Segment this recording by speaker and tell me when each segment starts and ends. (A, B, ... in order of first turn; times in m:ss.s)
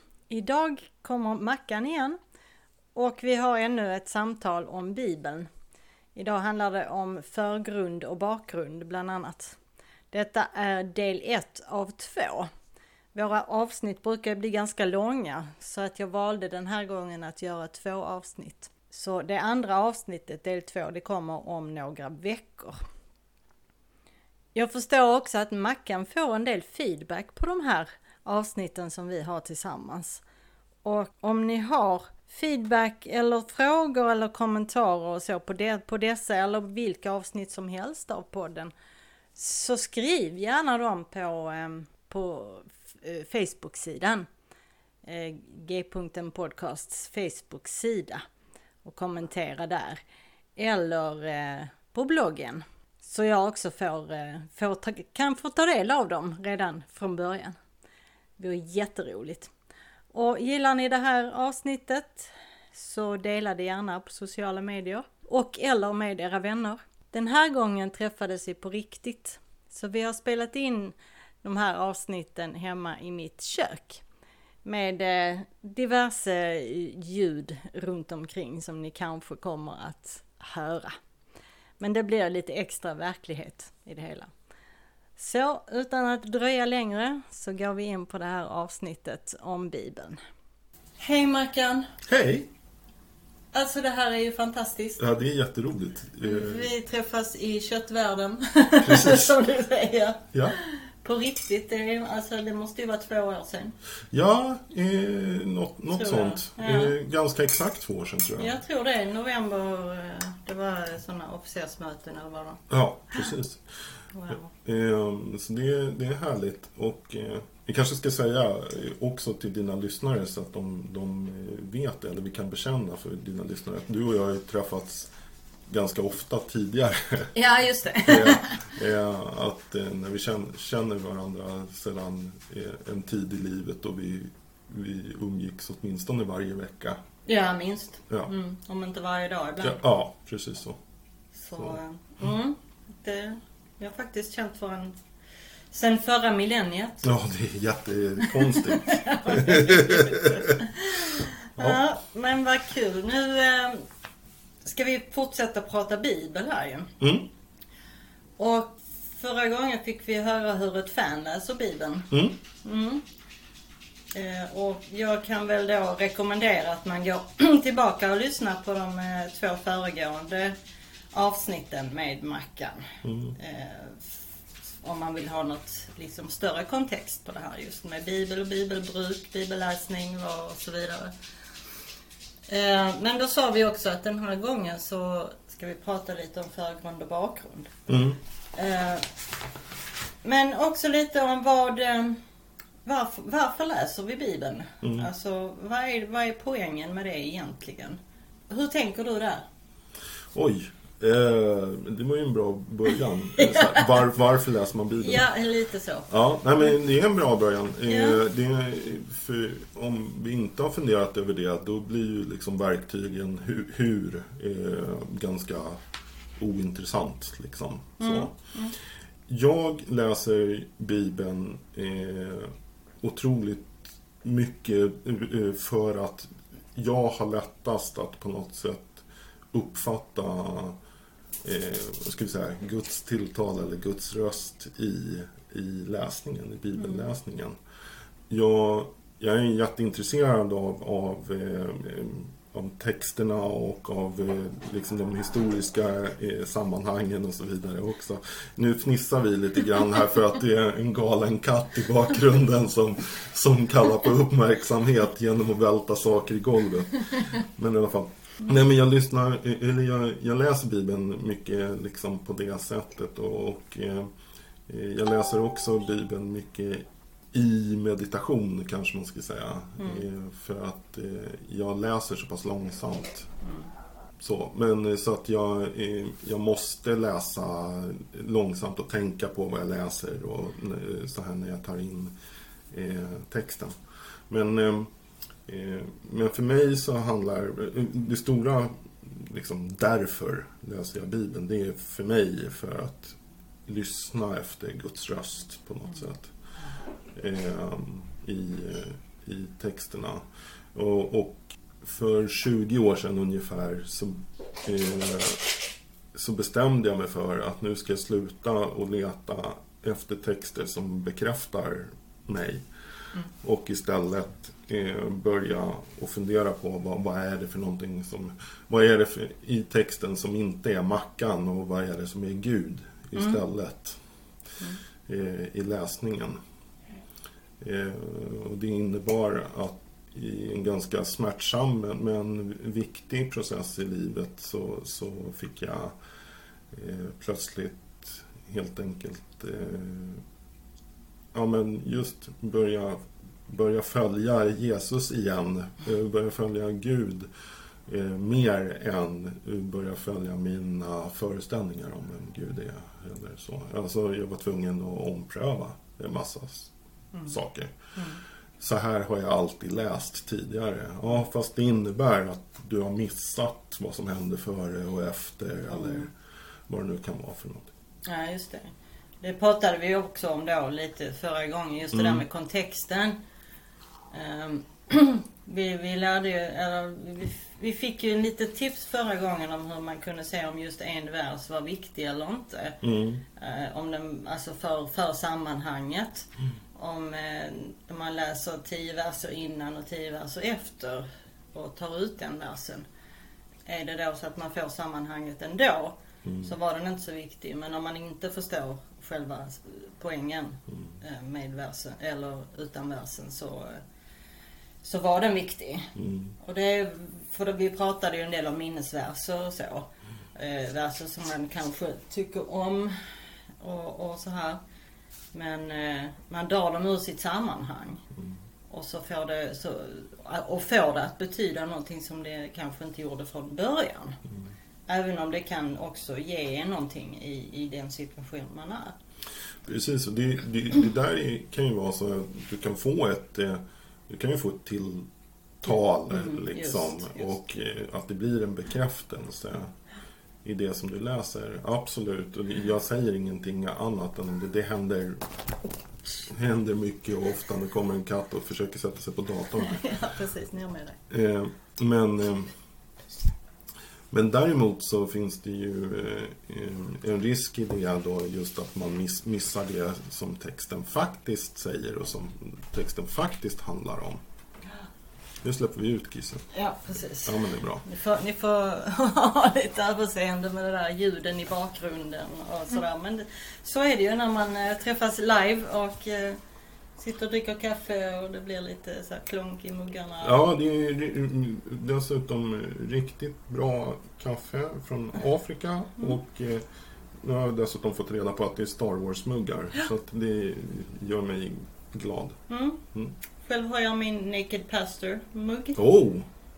0:00.3-0:02.2 A
0:02.9-0:05.5 A
0:06.2-0:09.6 A
0:10.1-0:12.5 A
0:13.1-0:22.8 A
0:24.6-0:30.2 A
0:30.8-0:38.7 A
0:39.4-0:44.3 A
0:45.0-0:48.2 A
0:48.8-0:50.0 A
0:50.6-0:57.6 A
0:58.4-0:59.5 A
1:00.1-1:14.0 A
1:14.6-1:21.0 A
1:21.8-1:24.3 A
1:25.2-1:30.2 A
1:31.0-1:31.9 A
1:32.1-1:32.5 B
1:33.5-1:35.0 A
1:35.0-1:36.7 B
1:36.2-1:43.8 A
1:38.8-1:39.4 B
1:44.1-1:48.6 B
1:45.9-1:47.0 A
1:48.4-1:52.6 A
1:52.7-1:53.6 B
1:54.1-1:54.5 A
1:54.3-2:05.1 B
2:05.7-2:07.3 B
2:07.4-2:08.6 A
2:08.1-2:17.0 B
2:17.3-2:19.8 A
2:19.6-2:20.8 B
2:21.4-2:25.0 A
2:25.7-2:27.1 A
2:27.0-2:30.6 B
2:28.2-2:33.9 A
2:34.6-2:36.9 A
2:37.0-2:37.3 B
2:38.4-2:43.0 A
2:42.1-2:42.4 B
2:44.1-2:50.6 A
2:51.1-2:54.0 A
2:53.0-2:53.4 B
2:54.8-3:01.1 A
3:02.5-3:07.8 A
3:07.9-3:08.2 B
3:08.5-3:09.1 A
3:10.2-3:12.2 A
3:12.8-3:18.0 A
3:14.8-3:15.1 B
3:18.5-3:19.5 A
3:20.3-3:25.3 B
3:23.4-3:23.9 A
3:25.0-3:26.1 A
3:26.1-3:35.8 B
3:27.9-3:28.2 A
3:36.4-3:38.3 B
3:38.0-3:38.8 A
3:39.3-3:50.8 B
3:51.4-3:57.6 B
3:58.3-4:24.1 B
4:24.7-4:33.3 B
4:29.8-4:30.0 A
4:34.2-4:42.1 B
4:42.7-4:43.8 B
4:44.3-4:44.9 B
4:45.5-4:56.3 B
4:57.1-5:00.2 B
5:00.8-5:05.5 B
5:06.1-5:12.6 B
5:13.4-5:24.0 B
5:23.2-5:23.4 A
5:25.1-5:26.4 B
5:27.6-5:36.0 B
5:36.7-5:40.2 B
5:41.3-5:47.3 B
5:47.9-5:56.7 B
5:57.3-5:57.7 B
5:58.6-6:06.1 B
6:05.7-6:06.1 A
6:06.7-6:07.7 B
6:08.1-6:13.2 A
6:11.9-6:12.2 B
6:14.1-6:22.8 A
6:22.8-6:23.2 B
6:23.4-6:32.9 A
6:33.7-6:43.8 A
6:36.2-6:36.5 B
6:44.8-6:53.0 A
6:46.0-6:46.3 B
6:53.6-6:54.6 A
6:55.3-6:58.0 A
6:58.7-7:04.2 A
7:04.9-7:09.0 A
7:09.7-7:15.1 B
7:15.6-7:19.7 B
7:16.1-7:17.4 A
7:20.4-7:25.2 B
7:26.3-7:29.8 B
7:29.6-7:31.0 A
7:31.1-7:32.5 B
7:34.1-7:44.2 B
7:45.4-7:46.4 B
7:46.5-7:56.4 A
7:47.2-7:47.8 B
7:57.0-8:00.4 A
8:00.2-8:06.6 B
8:07.2-8:12.4 B
8:12.5-8:12.8 A
8:13.4-8:15.8 A
8:15.8-8:16.3 B